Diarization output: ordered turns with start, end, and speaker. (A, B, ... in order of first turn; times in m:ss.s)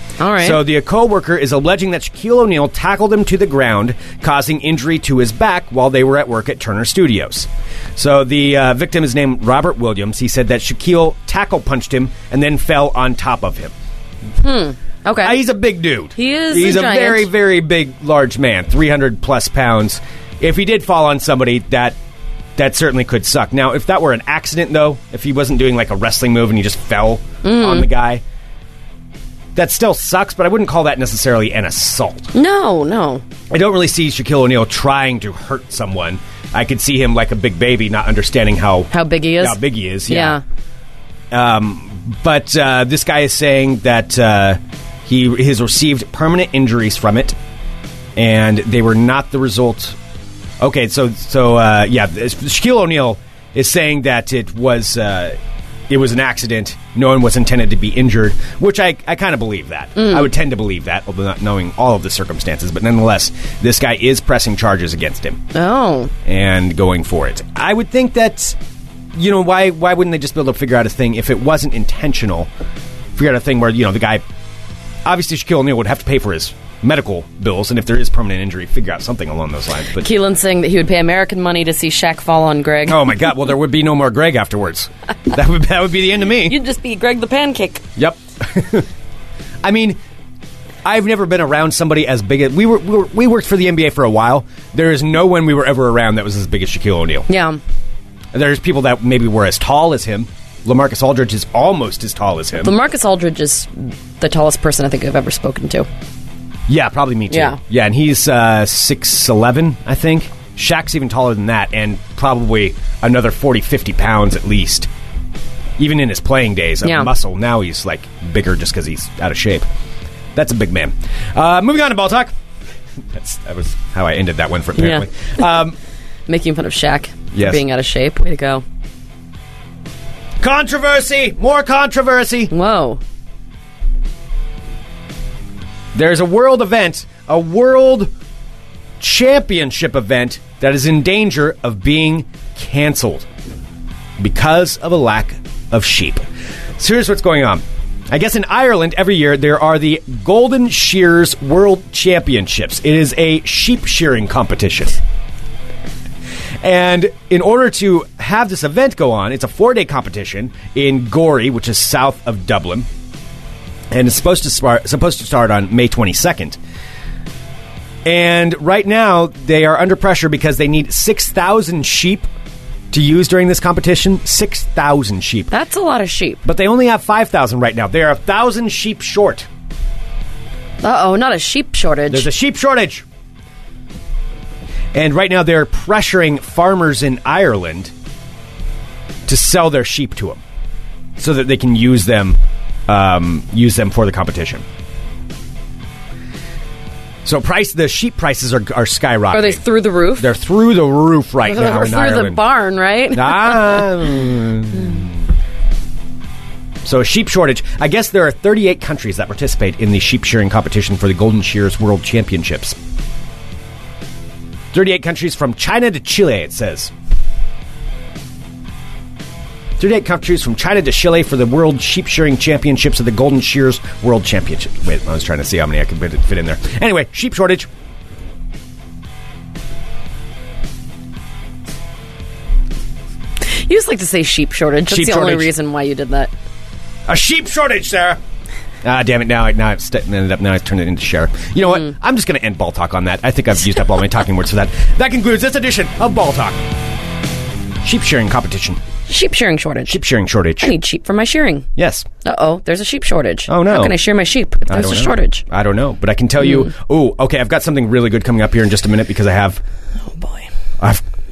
0:00.2-0:00.6 A
0:00.4-0:13.7 B
0:14.4-0:15.4 A
0:15.2-0:22.0 B
0:16.1-0:17.3 A
0:22.6-0:28.2 B
0:27.4-0:27.9 A
0:29.6-0:32.3 B
0:32.3-0:33.2 A
0:33.5-0:40.4 B
0:38.9-0:40.4 A
0:41.3-0:47.4 B
0:48.2-0:50.0 B
0:50.6-0:55.4 B
0:55.9-1:05.4 B
1:00.0-1:00.3 A
1:05.5-1:06.1 A
1:06.2-1:08.6 B
1:09.1-1:12.5 B
1:13.1-1:14.2 B
1:15.0-1:20.1 B
1:20.0-1:23.1 A
1:22.9-1:26.6 B
1:26.4-1:27.8 A
1:28.0-1:28.9 B
1:29.6-1:30.0 B
1:30.8-1:37.3 B
1:37.3-1:37.6 A
1:38.3-1:42.7 B
1:42.6-1:45.9 A
1:46.7-1:54.9 B
1:47.3-1:47.6 A
1:55.8-1:59.7 B
1:56.8-1:57.1 A
2:00.4-2:02.3 B
2:03.1-2:05.8 B
2:04.8-2:05.1 A
2:06.3-2:08.6 A
2:07.3-2:07.6 B
2:10.4-2:12.5 B
2:12.5-2:13.0 A
2:15.9-2:18.1 B
2:19.0-2:23.3 B
2:24.2-2:26.2 B
2:26.8-2:35.0 B
2:36.6-2:42.9 B
2:43.9-2:46.6 B
2:48.0-2:52.3 B
2:52.9-2:55.5 B
2:55.5-2:56.4 A
2:56.4-2:59.5 B
3:00.8-3:02.3 A
3:02.1-3:03.0 B
3:04.9-3:07.9 B
3:09.3-3:10.4 B
3:11.2-3:14.6 B
3:17.2-3:22.4 B
3:19.3-3:20.3 A
3:21.4-3:23.9 A
3:23.1-3:25.2 B
3:26.8-3:32.8 B
3:34.7-3:36.9 B
3:39.8-3:47.7 B
3:53.4-3:56.3 A
3:54.9-3:55.5 B
3:57.1-3:58.2 B
3:58.8-4:06.7 B
4:07.8-4:08.8 B
4:09.1-4:10.0 A
4:09.9-4:10.8 B
4:10.6-4:11.7 A
4:11.8-4:12.1 B
4:12.2-4:15.4 A
4:13.5-4:14.0 B
4:14.7-4:19.6 B
4:20.1-4:20.5 A
4:20.8-4:21.0 B